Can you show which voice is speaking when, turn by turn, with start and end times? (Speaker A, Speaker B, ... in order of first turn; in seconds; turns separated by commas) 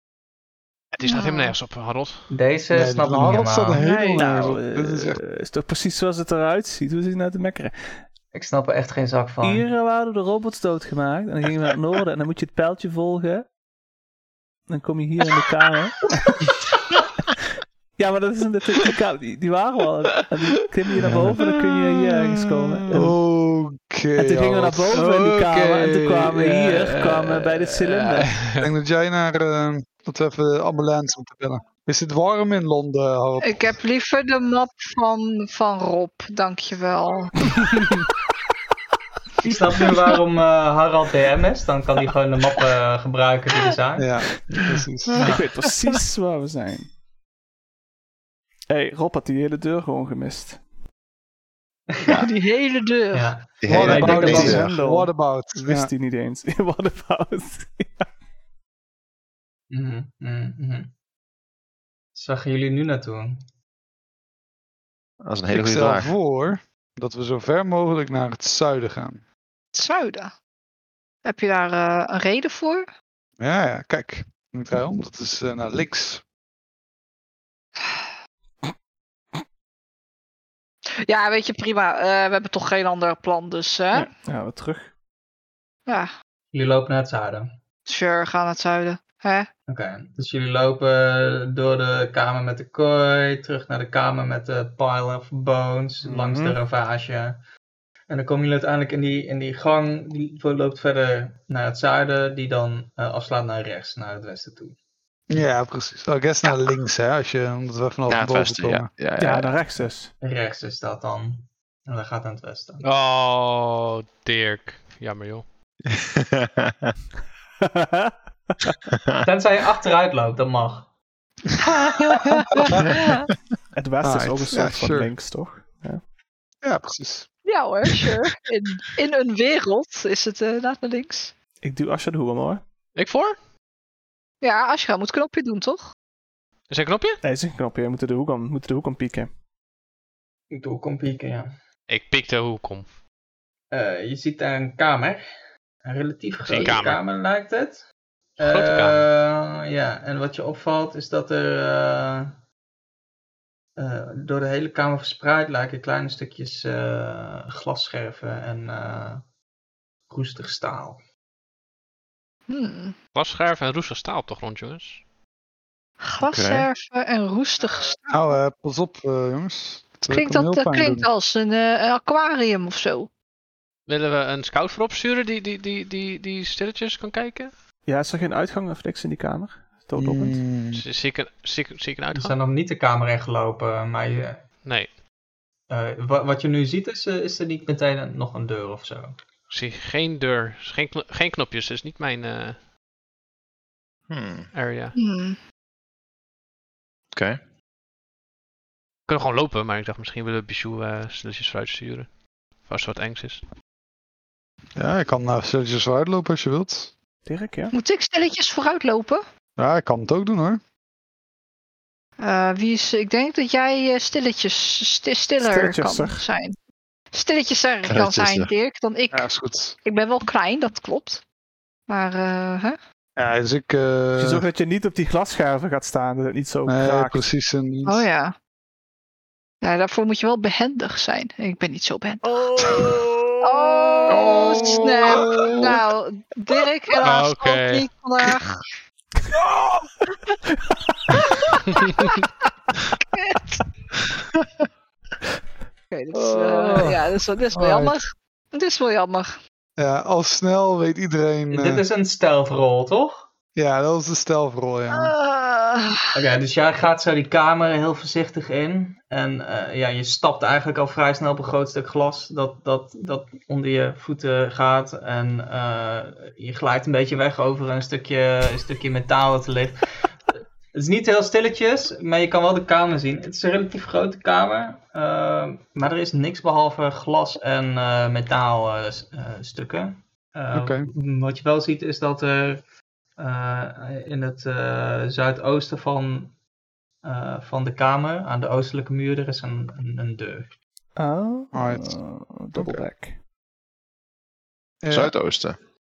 Speaker A: 0.9-2.3, Speaker B: 1.0-1.6, Speaker C: 2.3-3.8, Speaker D: 2.7-5.2, Speaker B: 3.8-4.3, Speaker E: 3.8-8.0, Speaker C: 8.3-9.7, Speaker E: 9.4-13.4, Speaker E: 14.7-16.1, Speaker E: 18.0-23.1, Speaker D: 21.0-21.3, Speaker D: 22.7-24.9, Speaker E: 24.2-28.4, Speaker A: 24.9-28.7, Speaker D: 28.6-33.7, Speaker B: 33.4-37.4, Speaker C: 39.4-45.4, Speaker D: 44.0-45.2, Speaker E: 45.2-46.9, Speaker E: 48.7-50.6, Speaker B: 52.1-53.3, Speaker C: 53.1-54.6, Speaker F: 53.6-54.7, Speaker D: 53.7-55.9, Speaker E: 53.8-58.1, Speaker C: 59.7-60.9, Speaker C: 62.1-63.4, Speaker F: 65.2-66.1, Speaker D: 65.5-69.2, Speaker B: 69.7-70.3, Speaker B: 71.2-72.8, Speaker D: 73.4-76.2, Speaker B: 81.0-84.1, Speaker E: 83.9-84.9, Speaker B: 85.9-86.1, Speaker C: 86.5-87.5, Speaker B: 87.9-89.5, Speaker C: 89.7-97.4, Speaker E: 96.0-96.6, Speaker C: 98.1-104.8, Speaker D: 105.3-108.9, Speaker F: 108.1-109.6, Speaker E: 109.2-110.1, Speaker C: 110.2-112.8, Speaker A: 112.8-115.4, Speaker F: 115.9-116.9, Speaker E: 117.7-118.1, Speaker C: 119.2-120.9, Speaker B: 122.2-123.3, Speaker D: 122.2-122.8, Speaker E: 123.7-126.0, Speaker D: 124.0-125.1, Speaker D: 126.6-127.3, Speaker B: 127.4-131.3, Speaker E: 131.6-132.6, Speaker A: 132.9-133.4, Speaker B: 134.4-135.9, Speaker A: 136.7-137.2, Speaker E: 137.2-139.3, Speaker C: 140.5-141.5, Speaker A: 141.9-142.9, Speaker C: 143.7-145.2, Speaker C: 145.8-147.8, Speaker A: 146.5-147.0, Speaker C: 148.4-152.3, Speaker A: 148.4-149.1, Speaker C: 153.8-159.2, Speaker C: 160.1-161.0, Speaker B: 162.5-162.9, Speaker A: 163.1-165.0, Speaker B: 166.0-168.0, Speaker F: 166.2-166.7, Speaker D: 168.1-171.1, Speaker B: 170.1-173.1, Speaker A: 173.9-177.5, Speaker E: 177.9-180.4, Speaker D: 180.0-180.8, Speaker A: 180.7-182.3, Speaker C: 182.1-184.4, Speaker A: 184.6-184.9, Speaker C: 185.7-189.2, Speaker A: 189.5-192.6, Speaker F: 194.1-194.5, Speaker A: 194.5-194.9, Speaker B: 194.9-195.4, Speaker F: 197.1-197.4, Speaker A: 199.1-203.4, Speaker D: 204.8-206.9, Speaker E: 207.2-207.7, Speaker B: 207.7-209.2, Speaker D: 209.6-210.6, Speaker B: 212.2-216.6, Speaker E: 215.4-216.2, Speaker B: 217.1-219.3, Speaker F: 217.8-218.5, Speaker D: 219.1-219.8, Speaker B: 219.8-221.2, Speaker B: 221.9-222.8, Speaker D: 223.2-224.4, Speaker E: 224.2-227.3, Speaker D: 226.7-228.1, Speaker B: 227.8-228.3, Speaker B: 229.6-238.6, Speaker E: 232.3-233.8, Speaker F: 234.1-235.5, Speaker D: 235.0-235.6, Speaker A: 237.0-237.9, Speaker D: 239.6-239.8, Speaker B: 243.1-243.6, Speaker B: 245.9-249.4, Speaker D: 246.1-247.9, Speaker D: 249.8-251.8, Speaker C: 251.5-253.3, Speaker D: 253.6-255.1, Speaker B: 254.9-256.1, Speaker C: 256.1-269.8, Speaker C: 270.7-282.6, Speaker D: 280.5-280.9, Speaker C: 283.2-286.4, Speaker C: 287.0-290.5, Speaker E: 290.9-293.2, Speaker D: 291.5-292.0, Speaker D: 292.6-292.8, Speaker D: 294.8-295.1, Speaker F: 294.9-295.6